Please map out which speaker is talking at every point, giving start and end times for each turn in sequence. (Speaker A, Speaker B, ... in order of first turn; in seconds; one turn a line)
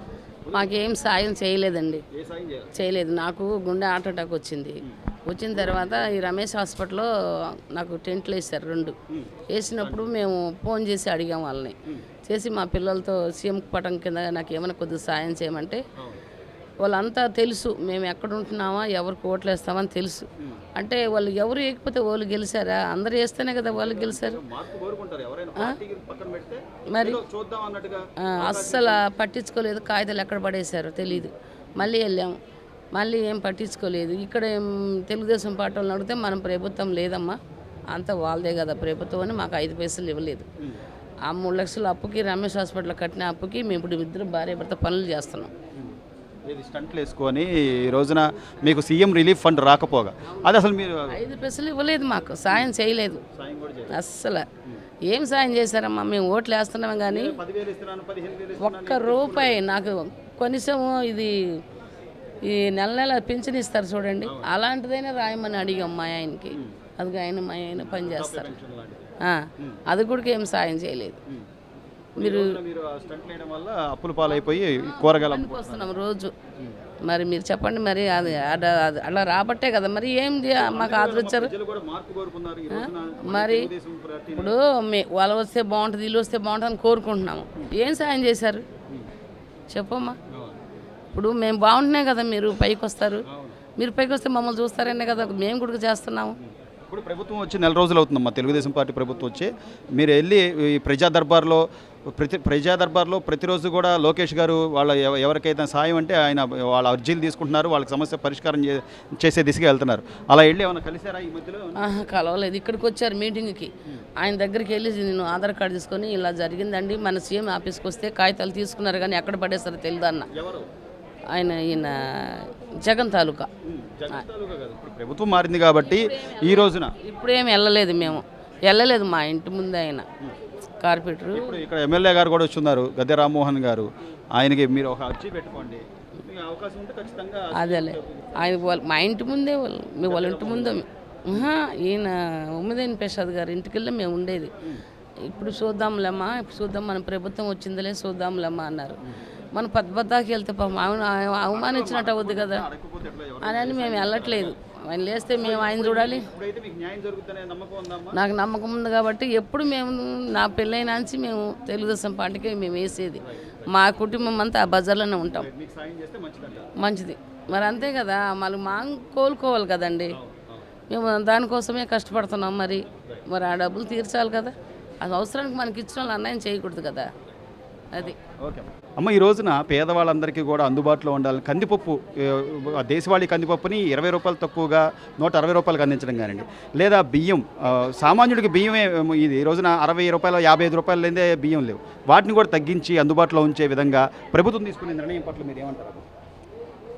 Speaker A: 0.4-0.7
Speaker B: 0.5-2.0
Speaker A: 2.1-2.7
Speaker B: 2.8-9.0
Speaker A: 5.5-6.2
Speaker A: 9.1-10.1
Speaker B: 9.5-15.8
Speaker A: 16.0-16.2
Speaker B: 16.8-24.4
Speaker A: 20.4-20.6
Speaker A: 23.7-29.0
Speaker B: 26.9-27.2
Speaker B: 28.3-32.4
Speaker B: 32.9-37.4
Speaker B: 37.9-40.5
Speaker B: 41.2-45.5
Speaker A: 46.5-51.2
Speaker B: 51.1-53.2
Speaker A: 53.3-54.0
Speaker B: 53.9-54.5
Speaker B: 55.1-57.4
Speaker A: 57.1-59.6
Speaker B: 58.6-61.6
Speaker B: 62.5-68.5
Speaker A: 64.2-64.5
Speaker A: 67.7-69.0
Speaker B: 69.2-71.2
Speaker A: 72.2-76.0
Speaker B: 72.2-72.6
Speaker B: 74.8-76.3
Speaker B: 77.1-81.5
Speaker A: 78.1-78.4
Speaker A: 80.5-84.6
Speaker B: 82.7-83.7
Speaker B: 84.4-88.6
Speaker B: 89.7-90.2
Speaker A: 90.3-90.6
Speaker B: 91.1-93.2
Speaker A: 93.2-93.6
Speaker B: 93.8-96.4
Speaker A: 96.4-101.6
Speaker A: 102.2-111.9
Speaker B: 111.8-120.3
Speaker A: 120.3-120.7
Speaker B: 121.3-123.5
Speaker A: 123.6-127.0
Speaker B: 125.9-130.1
Speaker B: 130.8-131.6
Speaker A: 131.3-138.6
Speaker B: 137.6-144.5
Speaker A: 140.0-141.5
Speaker B: 145.2-149.0
Speaker B: 149.6-152.7
Speaker A: 151.5-154.6
Speaker B: 153.4-156.3
Speaker A: 155.3-158.2
Speaker B: 158.1-165.5
Speaker A: 163.2-163.7
Speaker A: 165.2-166.7
Speaker B: 166.8-170.2
Speaker A: 170.1-170.7
Speaker B: 170.9-177.1
Speaker A: 178.0-196.1